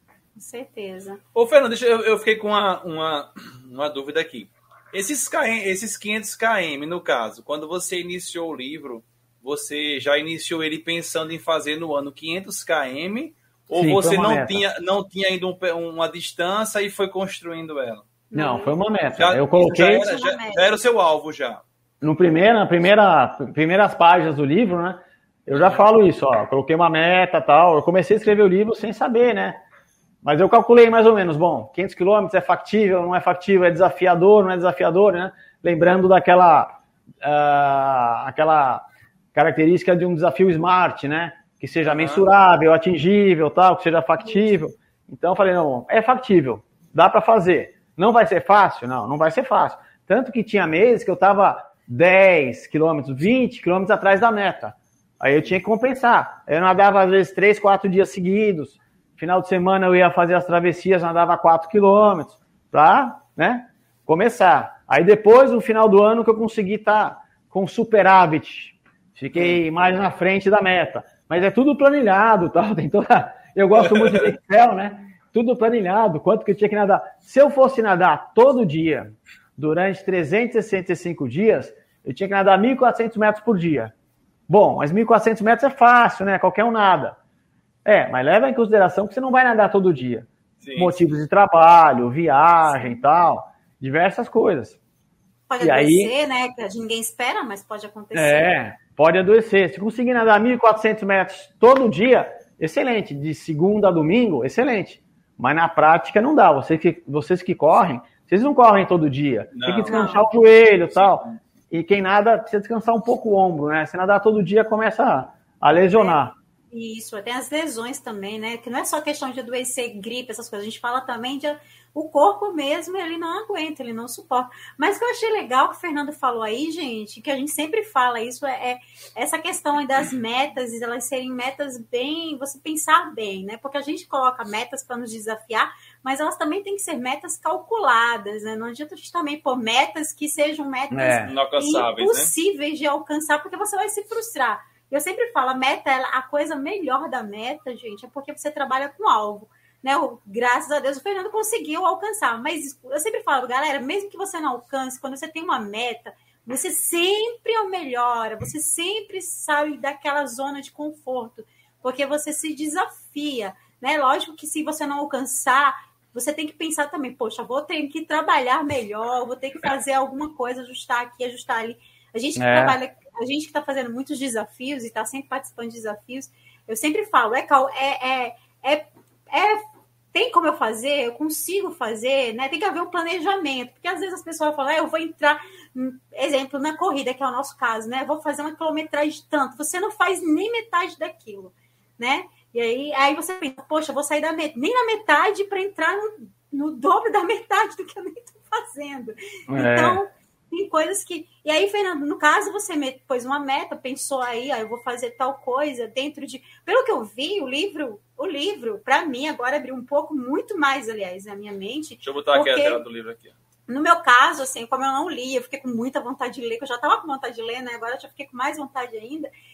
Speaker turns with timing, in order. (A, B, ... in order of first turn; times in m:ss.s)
0:00.4-0:01.2 A
0:01.4-0:18.1 B
0:13.8-0:14.6 C
0:18.3-0:18.7 A
0:18.4-0:20.1 C
0:19.2-0:21.6 B
0:19.7-0:20.7 A
0:22.0-0:29.6 C
0:25.5-0:25.8 B
0:30.2-1:23.9 C
0:41.8-0:42.2 B
1:13.8-1:14.3 B
1:24.5-1:27.2 C
1:27.8-1:34.8 C
1:30.6-1:31.0 B
1:32.7-1:33.1 A
1:35.5-1:38.5 A
1:35.6-1:36.1 C
1:38.1-1:56.3 C
1:49.5-1:50.0 B
1:49.9-1:50.3 A
1:50.9-1:51.4 B
1:55.9-1:56.2 A
1:56.7-2:59.6 A
2:20.9-2:21.3 C
2:21.3-2:22.3 B
2:52.4-2:52.8 C
3:00.1-3:32.8 A
3:19.5-3:20.0 C
3:32.0-3:33.4 B
3:33.7-3:39.3 A